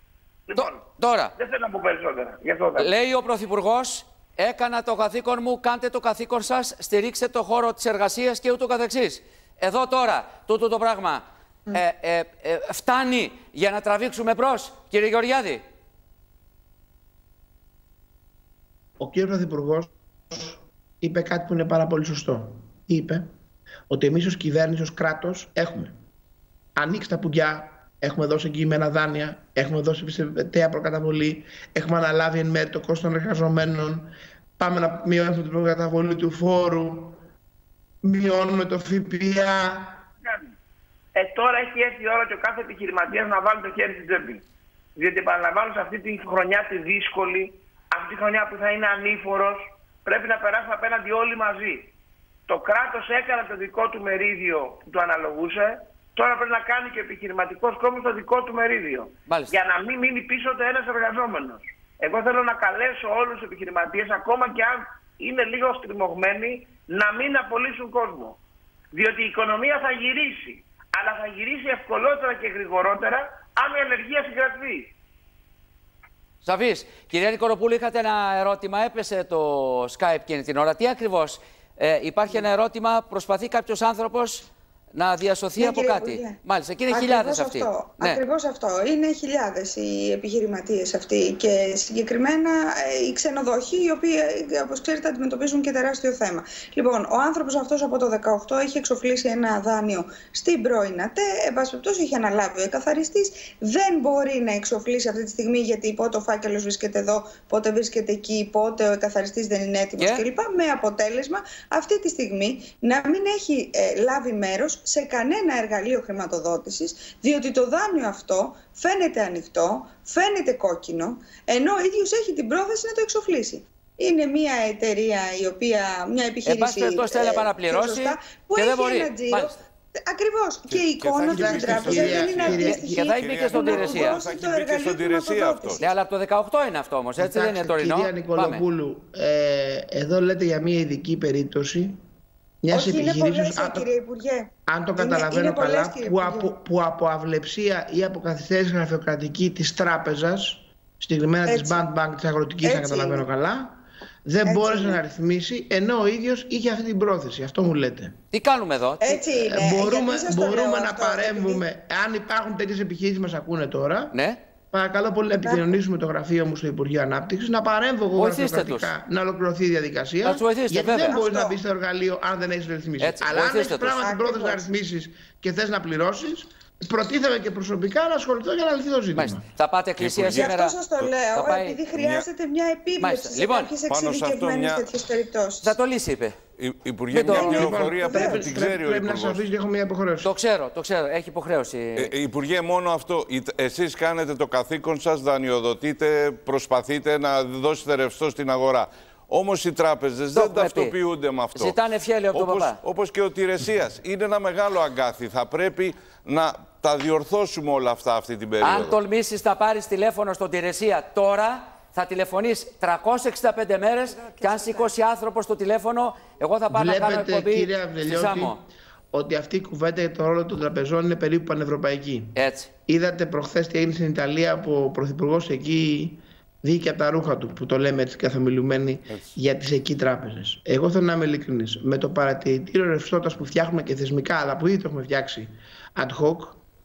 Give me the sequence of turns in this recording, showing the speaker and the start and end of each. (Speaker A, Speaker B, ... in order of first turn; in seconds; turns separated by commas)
Speaker A: 0.5-0.8, Speaker B: 0.5-1.3, Speaker A: 1.4-2.9, Speaker B: 2.8-15.6, Speaker C: 19.0-23.2, Speaker C: 23.9-25.9, Speaker C: 26.8-37.2, Speaker C: 38.0-40.0, Speaker A: 40.2-40.5, Speaker A: 41.1-44.4, Speaker A: 45.0-51.9, Speaker A: 52.5-68.4, Speaker B: 59.3-59.5, Speaker A: 68.9-74.9, Speaker B: 76.4-88.2, Speaker D: 85.5-86.4, Speaker D: 86.9-135.9, Speaker B: 110.0-110.2, Speaker B: 126.4-129.6, Speaker E: 130.7-135.9, Speaker C: 131.3-133.1, Speaker B: 132.6-134.2, Speaker B: 135.8-138.6, Speaker C: 137.2-142.0, Speaker C: 142.6-143.9, Speaker D: 142.7-146.5, Speaker C: 144.7-158.1, Speaker D: 151.5-151.8, Speaker D: 152.6-153.2, Speaker D: 154.4-155.0, Speaker B: 158.3-159.2, Speaker D: 159.0-161.6, Speaker C: 159.3-164.1, Speaker B: 164.1-164.4, Speaker C: 164.7-179.4, Speaker B: 168.1-168.9, Speaker B: 170.2-171.2, Speaker D: 171.1-171.6, Speaker B: 173.0-174.1, Speaker D: 174.0-174.7, Speaker B: 179.1-180.8, Speaker E: 180.0-181.2, Speaker D: 180.3-185.7, Speaker B: 181.3-181.8, Speaker E: 181.9-182.3, Speaker B: 183.0-183.7, Speaker E: 183.8-184.9, Speaker B: 185.6-186.3, Speaker E: 186.6-189.4, Speaker B: 187.1-187.7, Speaker D: 187.2-188.7, Speaker C: 187.2-190.3, Speaker B: 190.2-192.1, Speaker E: 191.9-201.8, Speaker B: 200.3-200.9, Speaker B: 201.5-202.8, Speaker E: 202.3-209.0, Speaker B: 208.6-218.6, Speaker C: 216.7-222.3, Speaker B: 222.3-222.7, Speaker C: 222.9-236.6